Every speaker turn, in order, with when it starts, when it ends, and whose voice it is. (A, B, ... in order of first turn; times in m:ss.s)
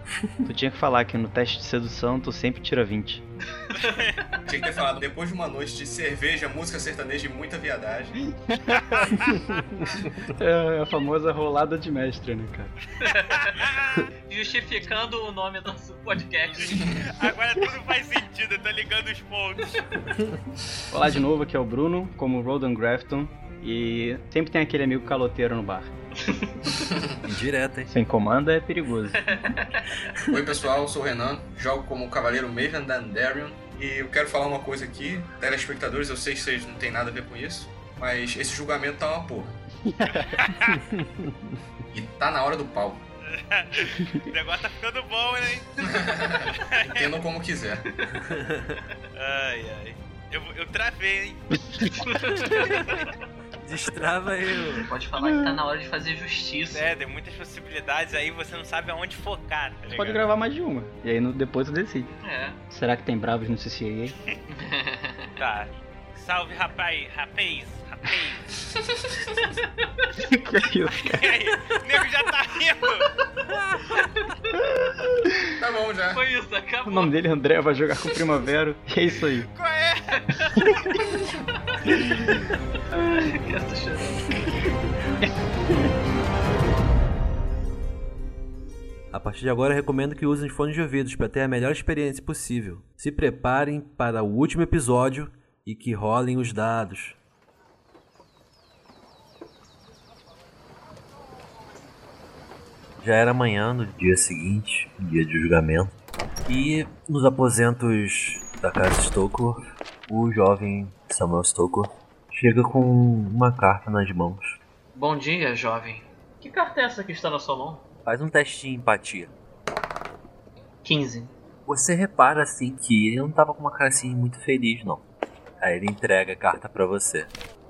0:00.4-0:03.3 A
0:03.7-0:04.1 B
0:03.8-0:04.1 C
0:04.4-0:08.2 D
0:09.3-0:09.7 A
0:10.4-0:12.8 A
0:13.0-0:13.7 B
0:14.3-0:17.0 B
0:17.1-0:19.7 C
0:20.9-0:25.9 A
0:26.3-0:26.7 B
0:26.7-0:27.2 D
0:27.2-0:27.9 E
0:27.9-0:29.2 A
0:29.3-0:29.9 B
0:30.3-0:39.6 D
0:39.8-0:40.4 A
0:40.4-0:40.7 C
0:41.9-0:43.0 D
0:43.3-0:47.1 C
0:45.9-0:47.9 D
0:48.3-0:48.7 E
0:49.1-0:51.5 C
0:51.7-0:52.0 A
0:52.0-0:53.0 B
0:52.6-0:53.0 C
0:53.6-0:54.9 E
0:54.8-0:56.9 B
0:55.2-0:55.5 A
0:56.7-1:00.2 C
0:59.9-1:02.1 A
1:02.2-1:02.6 B
1:02.7-1:04.2 A
1:04.5-1:05.3 B
1:05.4-1:08.5 C
1:10.2-1:11.4 A
1:11.1-1:13.0 C
1:14.7-1:15.4 A
1:15.6-1:16.2 D
1:16.1-1:17.1 B
1:16.8-1:19.5 A
1:19.4-1:20.0 C
1:20.2-1:21.0 B
1:21.7-1:22.4 B
1:22.9-1:24.6 B
1:29.1-1:37.2 E
1:43.0-1:45.9 E
1:46.5-1:54.6 E
1:54.9-1:57.8 B
1:58.0-1:59.3 E
2:00.8-2:01.3 B
2:01.7-2:05.0 E
2:05.6-2:07.3 E